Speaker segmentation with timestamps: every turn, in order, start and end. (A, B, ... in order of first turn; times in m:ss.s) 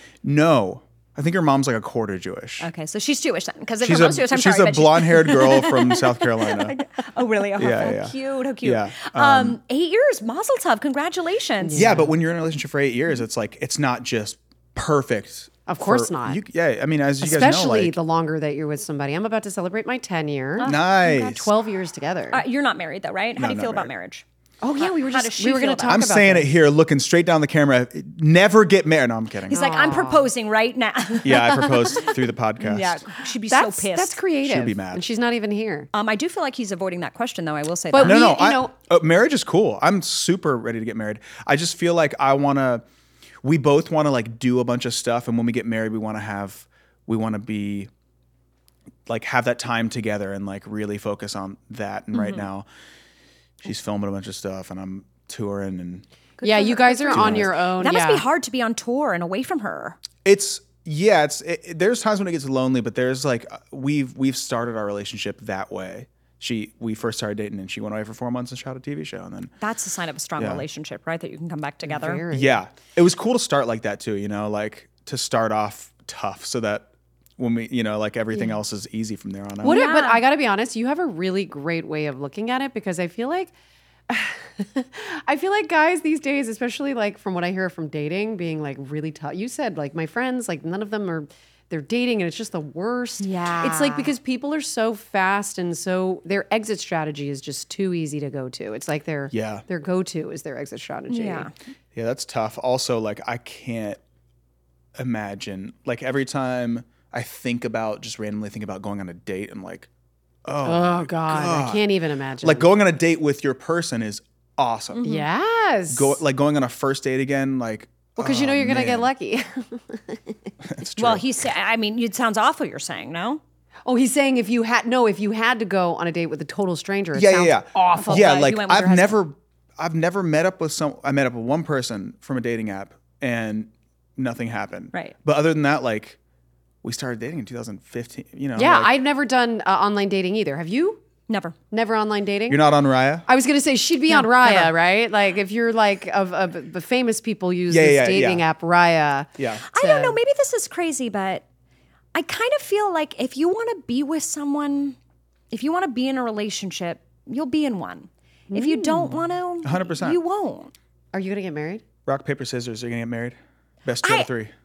0:00.2-0:02.7 A
0:02.6-0:11.9 B
0:03.8-0:06.8 A
0:07.6-0:09.6 A
0:11.6-0:12.1 C
0:11.7-0:18.0 A
0:15.7-0:16.4 C
0:17.2-0:22.4 C
0:20.6-0:20.9 B
0:20.6-0:21.5 A
0:22.3-0:24.2 B
0:23.4-0:23.9 A
0:24.6-0:26.5 C
0:24.8-0:26.0 B
0:25.9-0:29.6 A
0:29.5-0:34.2 B
0:29.5-0:30.3 C
0:31.2-0:33.0 A
0:33.5-0:35.9 C
0:34.4-0:35.0 A
0:35.9-0:38.2 B
0:37.9-0:38.7 C
0:38.0-0:42.8 A
0:43.4-0:47.9 A
0:49.1-0:52.6 A
0:52.1-0:52.4 B
0:53.6-0:56.0 A
0:56.4-1:00.0 B
0:56.4-0:58.2 C
0:57.1-0:57.5 A
1:00.2-1:09.5 A
1:09.6-1:12.2 B
1:10.4-1:10.6 A
1:11.8-1:12.6 C
1:12.3-1:19.8 A
1:19.6-1:20.2 B
1:19.6-1:23.5 C
1:24.1-1:41.5 C
1:33.2-1:34.1 B
1:39.3-1:39.6 A
1:41.1-1:41.5 B
1:41.9-1:44.0 A
1:45.0-1:49.9 A
1:50.4-1:51.8 A
1:50.6-1:52.7 C
1:52.4-1:55.0 A
1:54.9-1:55.3 B
1:55.0-1:56.2 C
1:55.9-1:59.1 A
1:58.2-2:00.5 C
2:00.6-2:01.2 A
2:01.0-2:03.4 B
2:03.9-2:08.4 C
2:07.1-2:16.2 A
2:07.9-2:09.2 B
2:16.8-2:18.9 A
2:18.6-2:21.0 C
2:21.3-2:21.6 B
2:21.7-2:22.6 C
2:22.5-2:23.2 A
2:23.2-2:30.2 C
2:27.7-2:28.4 A
2:29.4-2:29.6 A
2:29.7-2:31.4 B
2:32.1-2:35.0 B
2:35.5-2:40.7 B
2:38.5-2:39.2 C
2:39.6-2:40.2 A
2:41.1-2:41.8 C
2:42.0-2:44.5 A
2:44.0-2:44.3 B